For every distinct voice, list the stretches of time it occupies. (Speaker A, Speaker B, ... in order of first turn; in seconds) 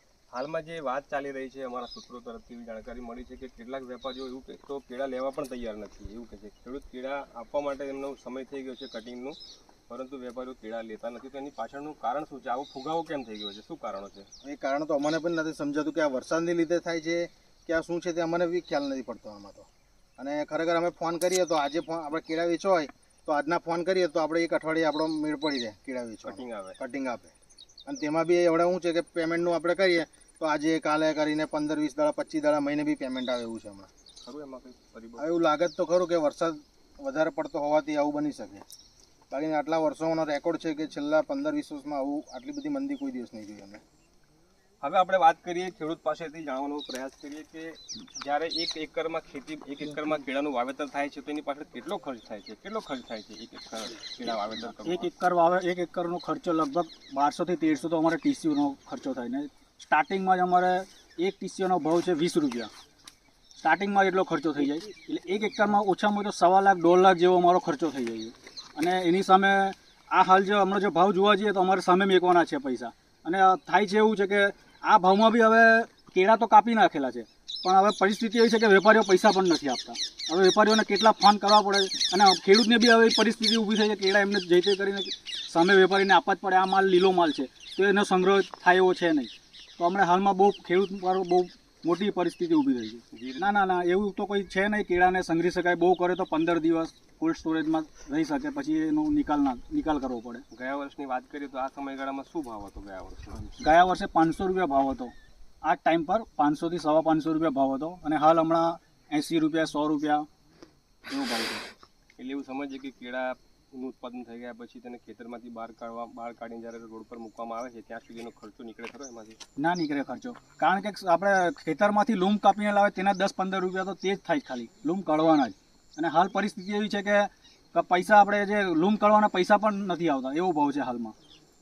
Speaker A: 0.3-9.4, 9.9-14.3, 26.2-26.8, 34.2-35.3, 44.8-55.1, 93.1-93.5, 100.5-103.8, 112.2-119.4
Speaker B: 14.4-27.3, 27.9-33.9, 35.2-38.6, 39.3-43.8
Speaker C: 54.8-62.7, 63.6-100.4, 103.6-110.3, 111.1-111.7, 119.6-131.2